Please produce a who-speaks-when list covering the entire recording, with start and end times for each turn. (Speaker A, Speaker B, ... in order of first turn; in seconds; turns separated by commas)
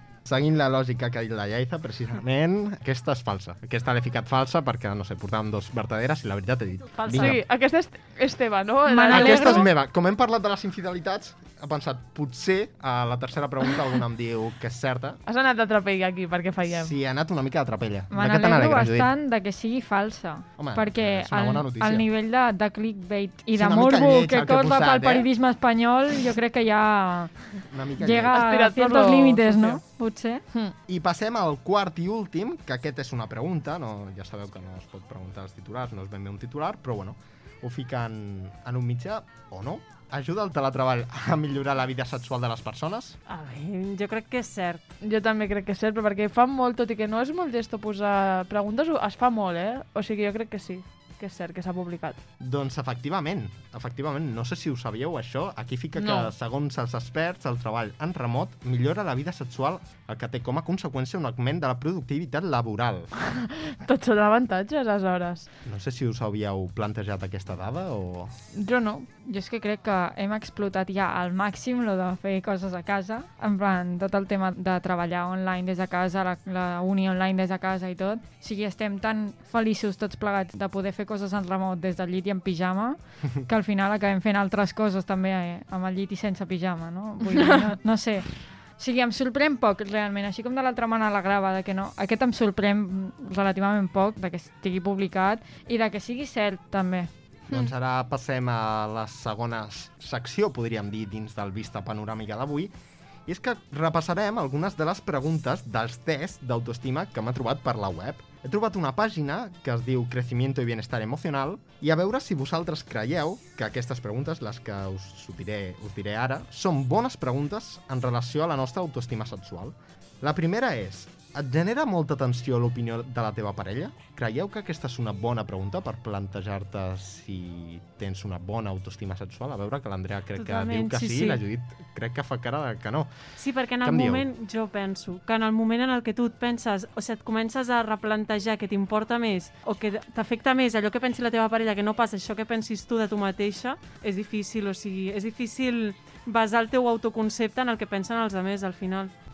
Speaker A: 0.2-7.6, Speaker B: 6.9-7.4, Speaker C: 7.1-9.7, Speaker D: 8.9-9.5, Speaker A: 9.1-15.2, Speaker C: 15.3-16.9, Speaker A: 16.7-19.1, Speaker D: 18.1-27.5, Speaker A: 20.6-22.1, Speaker A: 23.6-25.3, Speaker A: 27.6-28.4, Speaker D: 28.0-30.5, Speaker C: 28.3-29.8, Speaker C: 30.5-30.8, Speaker A: 30.9-43.2, Speaker B: 43.3-44.9, Speaker C: 45.0-52.2, Speaker A: 52.4-63.1, Speaker C: 56.0-56.3, Speaker C: 63.8-65.5, Speaker A: 65.7-68.3, Speaker C: 68.5-69.1, Speaker D: 69.2-97.1, Speaker C: 87.3-87.7, Speaker A: 97.5-102.7, Speaker A: 103.3-134.3, Speaker B: 130.3-131.4, Speaker B: 133.4-149.1